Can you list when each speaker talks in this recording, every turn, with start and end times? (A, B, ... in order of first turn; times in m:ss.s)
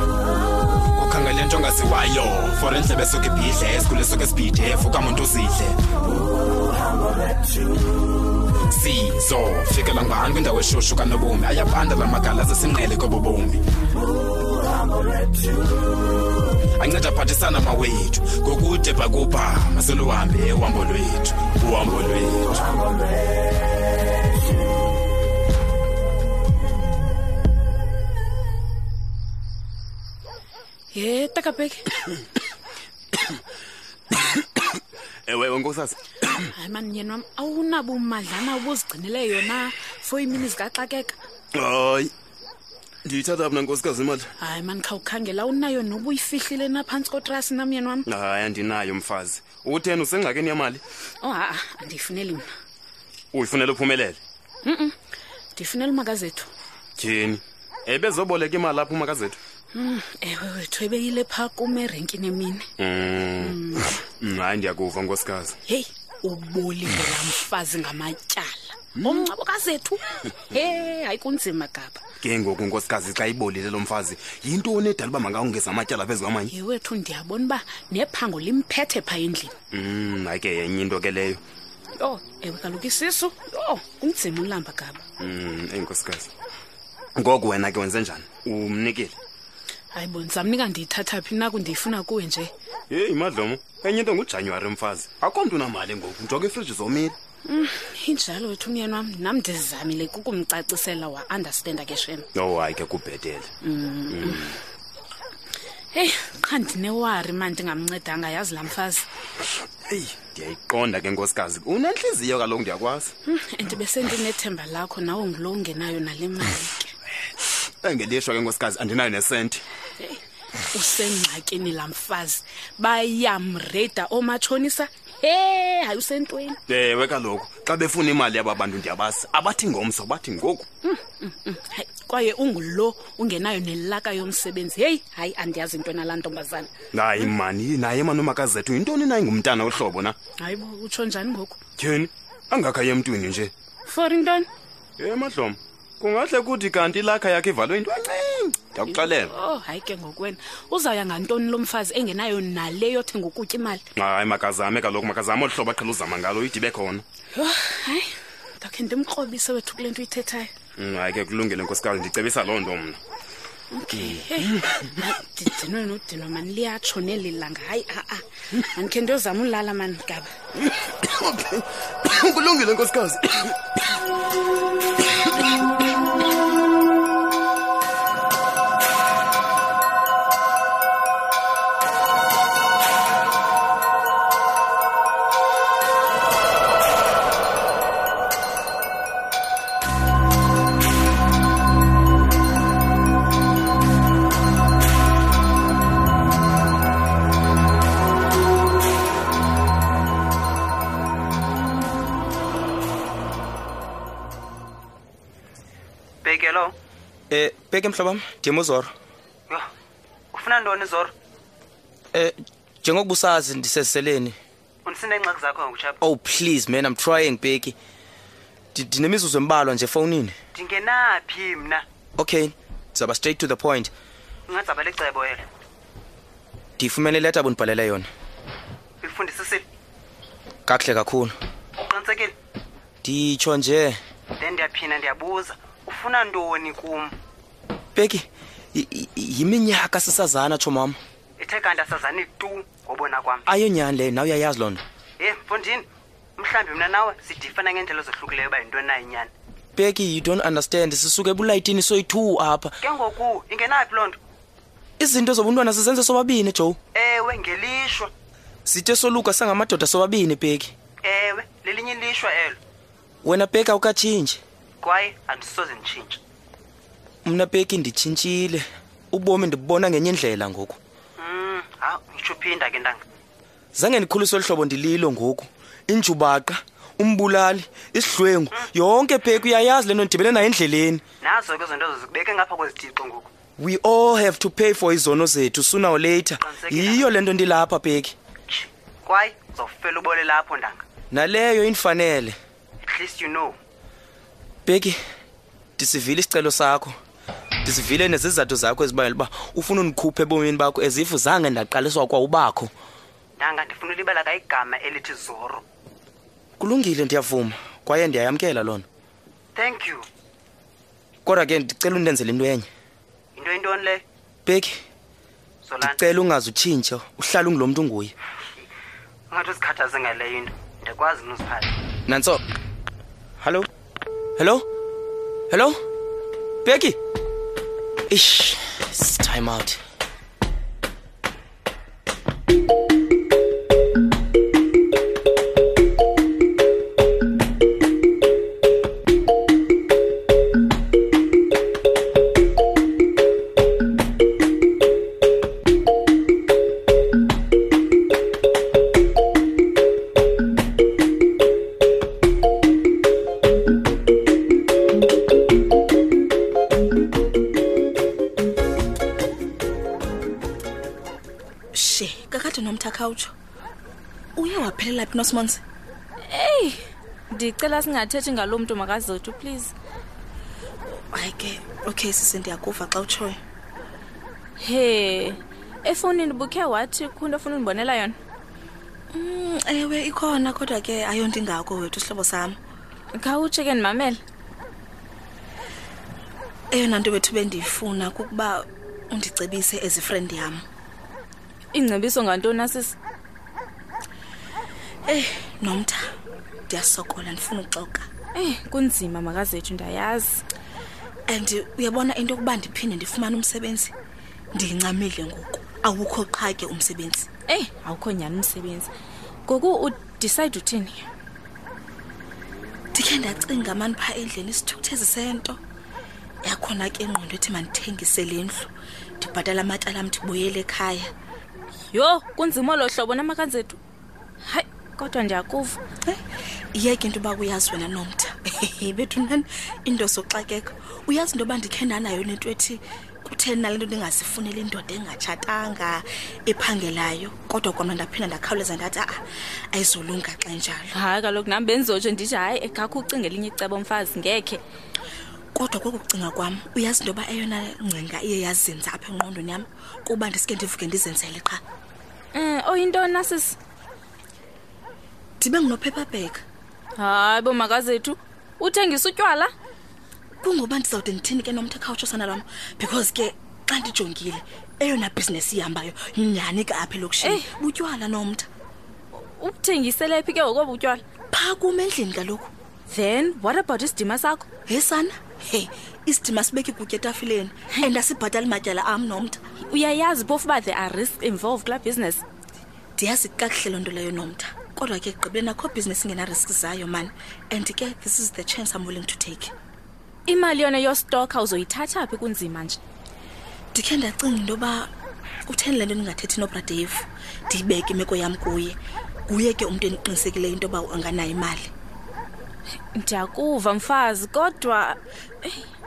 0:01.0-0:05.8 A
0:08.7-0:13.6 A
0:16.8-0:22.7 A
0:30.9-0:31.8 B
0:34.3-0:34.6 C
0:35.3-0:36.4 C
0:36.2-0:41.2 B
0:41.5-0:42.1 C
0:43.0-0:44.3 C
0:44.4-0:48.1 B
0:48.1-0:50.8 C
0:51.2-0:52.5 B
0:53.3-0:54.2 C
0:54.6-0:54.9 B
0:55.6-0:56.5 B
0:57.0-0:59.4 C
0:59.7-1:02.7 B
1:02.8-1:05.6 C
1:03.5-1:03.9 B
1:06.2-1:07.1 D
1:06.9-1:12.0 B
1:09.0-1:09.3 C
1:12.2-1:16.5 C
1:16.5-1:19.5 B
1:19.7-1:21.4 C
1:22.0-1:25.0 B
1:25.2-1:26.3 C
1:27.2-1:29.2 C
1:29.9-1:32.5 B
1:32.9-1:37.2 C
1:37.5-1:42.3 B
1:42.4-1:43.5 C
1:43.6-1:44.5 B
1:44.1-1:44.6 C
1:45.9-1:49.1 B
1:49.9-1:53.1 C
1:53.3-1:56.9 B
1:57.8-1:59.6 C
2:00.7-2:06.6 B
2:06.7-2:10.7 C
2:10.8-2:16.7 B
2:16.9-2:20.2 C
2:20.4-2:21.6 B
2:21.8-2:23.5 C
2:23.9-2:24.5 B
2:25.0-2:29.3 C
2:28.9-2:33.8 B
2:34.0-2:37.0 C
2:37.4-2:40.5 B
2:40.8-2:43.0 C
2:43.7-2:50.3 B
2:43.9-2:44.9 C
2:50.6-2:53.6 C
3:26.2-3:26.8 E
3:27.3-3:28.9 F
3:30.3-3:31.1 E
3:32.1-3:34.4 F
3:34.8-3:36.0 E
3:36.0-3:37.8 F
3:38.7-3:40.4 F
3:40.6-3:41.8 E
3:42.2-3:43.9 F
3:44.5-3:45.5 E
3:46.8-3:48.1 F
3:49.0-3:49.6 E
3:50.7-3:51.4 F
3:51.8-3:52.3 E
3:53.0-3:54.0 F
3:54.4-3:57.2 E
3:58.0-4:01.0 F
4:01.4-4:03.4 E
4:03.5-4:04.8 F
4:05.2-4:09.3 E
4:09.8-4:12.8 F
4:12.8-4:14.2 E
4:15.0-4:16.8 F
4:17.0-4:18.1 E
4:18.7-4:20.7 F
4:21.0-4:22.6 E
4:23.2-4:24.4 F
4:24.8-4:26.2 E
4:27.2-4:30.8 F
4:31.2-4:33.0 E
4:33.7-4:41.0 F
4:41.2-4:43.3 E
4:43.6-4:48.2 F
4:46.5-4:47.1 E
4:48.5-4:50.8 E
4:51.1-4:52.4 F
4:52.8-4:53.6 E
4:54.7-4:55.0 F
4:55.8-4:57.0 F
4:57.6-5:02.7 F
5:03.4-5:05.6 E
5:06.6-5:08.8 F
5:09.6-5:10.0 E
5:11.2-5:12.7 F
5:13.4-5:14.0 E
5:14.5-5:14.8 F
5:15.6-5:16.0 E
5:15.8-5:18.2 F
5:19.3-5:21.8 E
5:22.1-5:22.4 F
5:23.4-5:23.7 F
5:24.4-5:24.6 F
5:25.5-5:25.8 F
5:26.6-5:27.0 F
5:28.1-5:29.8 F
6:01.7-6:03.3 D
6:04.4-6:05.6 D
6:06.2-6:06.8 G
6:07.3-6:09.7 G
6:10.9-6:13.4 D
6:14.6-6:18.2 G
6:19.1-6:22.6 D
6:23.1-6:24.2 G
6:26.7-6:30.6 D
6:31.7-6:33.0 G
6:35.1-6:36.0 D
6:36.7-6:38.1 D
6:38.3-6:40.4 G
6:41.3-6:43.9 D
6:44.5-6:47.3 D
6:47.5-6:48.9 G
6:49.5-6:51.0 G
6:52.9-6:55.6 D
6:56.4-7:01.1 D
7:01.9-7:03.8 G
7:04.4-7:05.8 G
7:06.7-7:19.2 D
7:19.7-7:20.9 D
7:20.9-7:24.6 G
7:25.6-7:31.6 D
7:32.3-7:33.6 G
7:35.4-7:36.4 D
7:37.0-7:39.5 G
7:40.4-7:48.5 D
7:47.2-7:47.5 G
7:49.2-7:51.0 G
7:51.3-7:52.5 D
7:52.9-7:54.5 G
7:54.7-7:59.4 D
7:59.6-8:02.2 G
8:03.0-8:09.5 D
8:10.3-8:12.8 G
8:13.7-8:14.9 D
8:15.5-8:18.8 D
8:19.3-8:21.7 D
8:22.9-8:25.7 G